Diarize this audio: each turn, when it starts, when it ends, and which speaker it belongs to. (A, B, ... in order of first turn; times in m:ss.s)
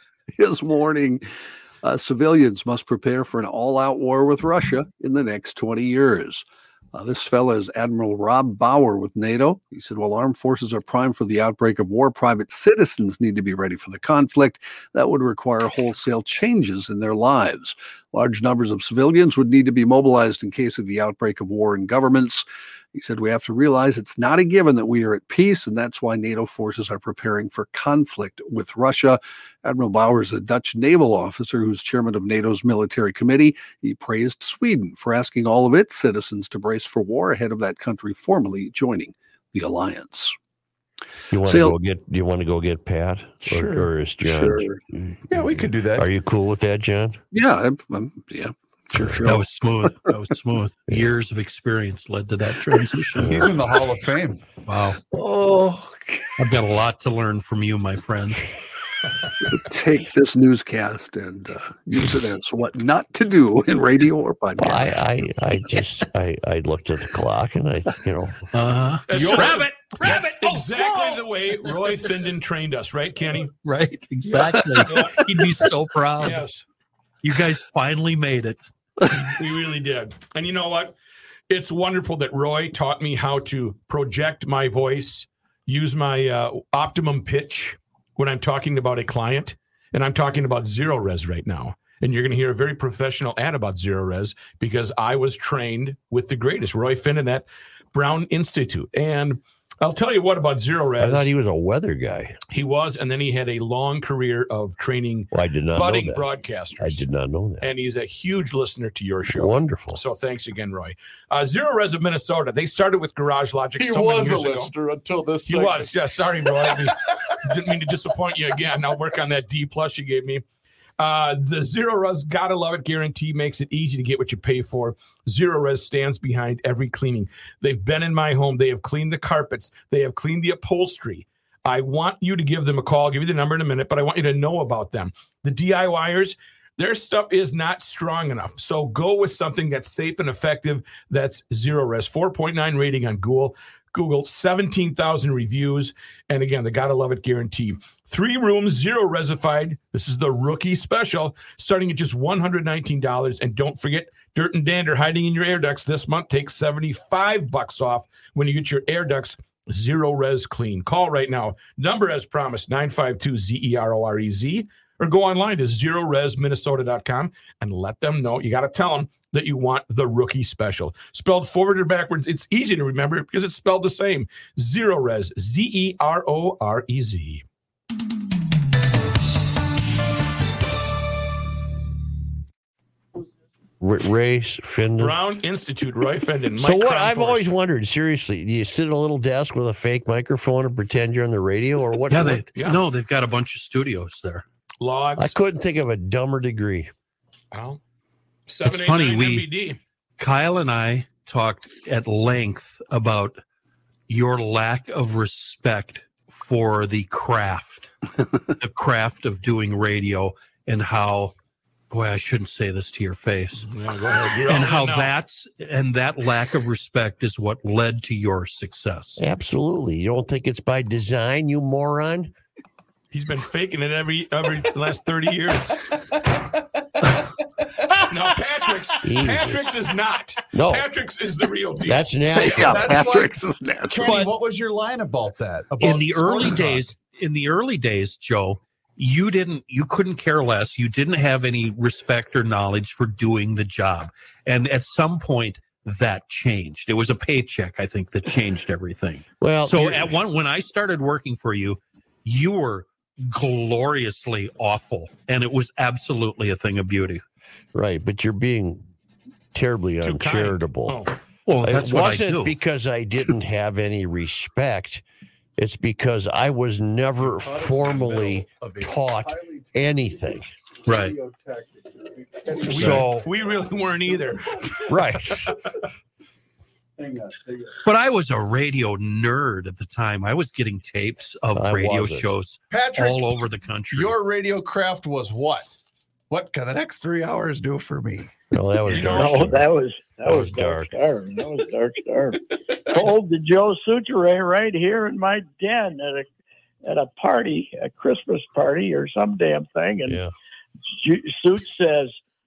0:00.3-0:01.2 A
0:01.8-0:40.4 A
0:41.3-0:47.2 B
0:41.5-0:41.8 A
0:43.5-0:43.9 C
0:44.2-0:44.8 A
0:45.3-0:46.1 C
0:47.3-0:50.1 A
0:48.9-0:49.3 B
0:49.3-0:53.5 D
0:53.2-0:54.4 C
0:53.2-0:53.5 B
0:54.7-0:55.0 D
0:55.1-0:56.3 A
0:56.4-0:58.5 D
0:59.4-1:05.2 A
1:04.6-1:08.5 B
1:08.5-1:12.0 D
1:09.1-1:13.5 E
1:13.6-1:16.4 D
1:14.3-1:15.0 A
1:14.8-1:15.2 E
1:16.2-1:16.6 E
1:17.2-1:18.7 D
1:19.3-1:21.0 E
1:21.5-1:41.3 E
1:41.0-1:42.4 B
1:42.5-1:47.0 E
1:45.3-1:46.2 B
1:46.8-1:47.7 B
1:47.6-1:54.7 E
1:49.3-1:50.0 B
1:53.8-1:56.0 C
1:55.5-2:00.4 E
1:56.6-1:56.9 C
2:01.0-2:57.4 E
3:03.8-3:05.2 B
3:05.0-3:07.5 E
3:06.6-3:12.4 B
3:12.1-3:14.4 D
3:12.6-3:12.8 E
3:14.8-3:15.3 E
3:15.2-3:16.9 B
3:17.5-3:17.8 E
3:18.5-3:19.8 E
3:18.6-3:19.5 D
3:20.2-3:23.4 D
3:24.1-3:27.9 D
3:28.5-3:31.4 D
3:31.9-3:33.7 D
3:33.7-3:35.1 E
3:34.5-3:39.2 D
3:39.2-3:42.3 B
3:43.1-3:45.8 E
3:48.1-3:52.1 E
3:49.0-3:49.8 B
3:50.5-3:50.9 B
3:51.8-3:52.9 B
3:52.4-3:54.1 A
3:52.5-3:56.9 C
3:54.0-3:54.3 D
3:55.8-4:17.2 D
4:09.4-4:10.1 B
4:17.7-4:18.8 B
4:19.5-4:21.0 B
4:20.0-4:21.2 E
4:21.5-4:22.6 D
4:21.6-4:25.0 B
4:25.6-4:30.5 B
4:27.2-4:30.2 C
4:30.9-4:31.2 D
4:30.9-4:33.5 C
4:32.6-4:34.8 E
4:32.8-4:33.2 B
4:32.8-4:33.0 D
4:34.9-4:35.6 B
4:37.0-4:37.8 C
4:37.8-4:44.2 D
4:41.6-4:42.3 B
4:42.7-4:43.2 C
4:43.9-4:45.7 C
4:46.3-4:48.3 C
4:48.5-4:49.7 B
4:48.9-4:49.6 E
4:49.0-4:56.3 F
4:50.2-4:51.0 B
4:56.8-5:00.2 F
5:00.0-5:00.3 B
5:00.9-5:02.2 F